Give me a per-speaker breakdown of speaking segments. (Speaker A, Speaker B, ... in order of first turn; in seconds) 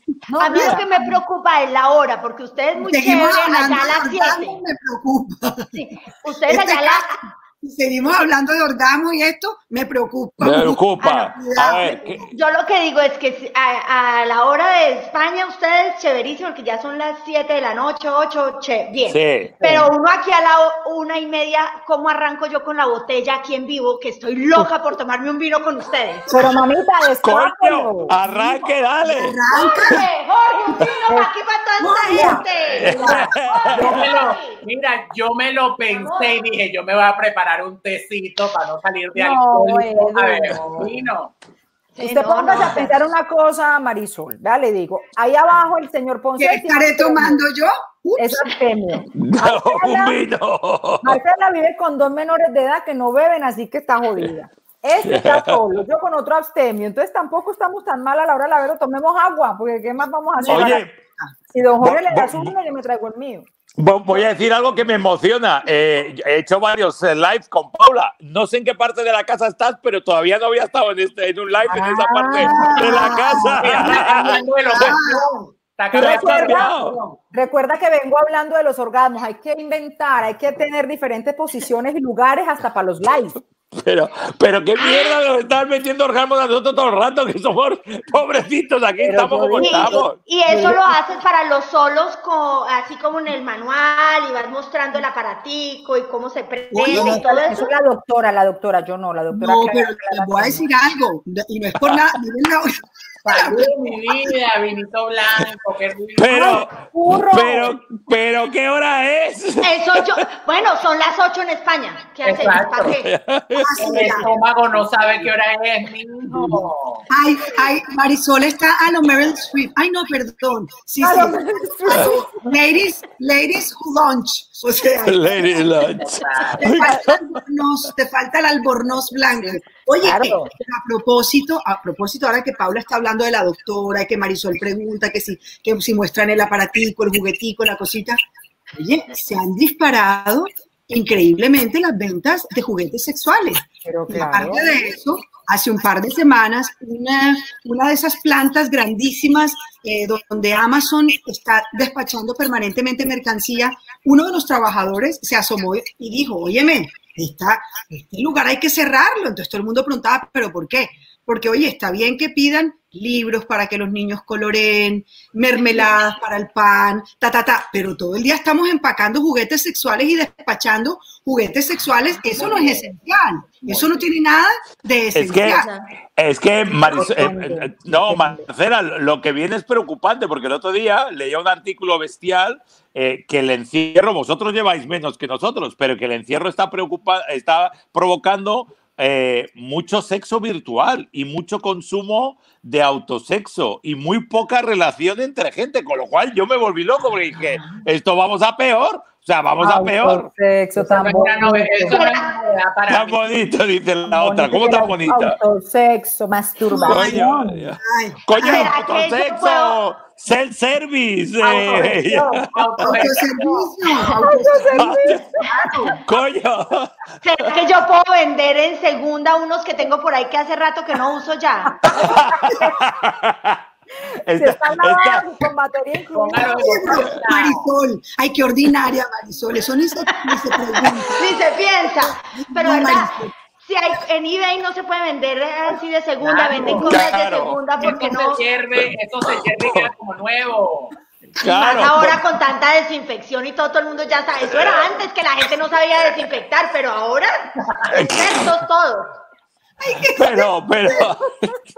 Speaker A: 0.3-0.9, 19.6-19.9, 26.3-28.1, 32.1-32.4, 33.0-33.2, 39.1-40.8, 42.0-47.4, 48.2-50.2, 51.0-60.8, 61.5-63.5, 71.7-73.0, 75.9-76.7, 77.3-83.3, 89.0-91.0, 96.9-100.7, 106.3-107.7, 116.3-116.6, 121.0-122.1, 130.0-130.5, 143.8-144.7, 176.8-178.4, 199.6-202.0, 204.0-207.7, 214.1-215.7, 221.6-222.8, 224.3-226.8
Speaker B: 0.4-4.6, 5.7-7.2, 12.3-26.3, 29.5-34.6, 35.9-36.4, 41.9-43.0, 84.8-85.2, 89.6-97.7, 109.6-113.1, 114.0-114.2, 172.3-172.9, 175.5-175.9, 201.8-202.3, 208.4-209.8, 217.2-222.1, 230.3-238.4, 241.4-249.2
Speaker C: 2.8-5.8, 6.5-12.3, 28.2-30.0, 31.8-32.5, 46.4-48.5, 60.4-61.3, 72.4-75.2, 96.7-97.2, 99.3-102.7, 103.3-103.7, 113.5-114.3, 117.1-125.8, 126.6-138.2, 138.7-175.7, 206.7-207.2, 207.8-208.7, 212.8-216.0, 226.3-231.6, 232.1-233.3, 249.8-251.1
Speaker D: 10.4-12.3, 19.0-19.6, 27.2-30.0, 32.7-34.1, 49.1-51.2, 55.0-55.6, 60.5-60.9, 61.8-62.5, 63.8-74.4, 75.9-77.0, 83.7-90.2, 106.2-110.2, 112.8-113.8, 125.0-127.2, 175.1-175.6, 176.1-200.3, 202.9-205.4, 206.9-213.1, 214.8-215.3, 216.0-217.5, 221.9-223.6, 224.2-225.3, 236.7-237.7, 238.8-239.9, 241.4-242.2, 244.4-244.9, 247.9-248.6, 250.1-251.5
Speaker E: 33.7-41.3, 73.6-77.2, 103.2-106.6, 112.2-112.9, 113.8-117.0, 126.0-126.6, 200.8-203.2, 211.4-213.5, 226.1-227.7, 236.2-237.1, 237.8-240.9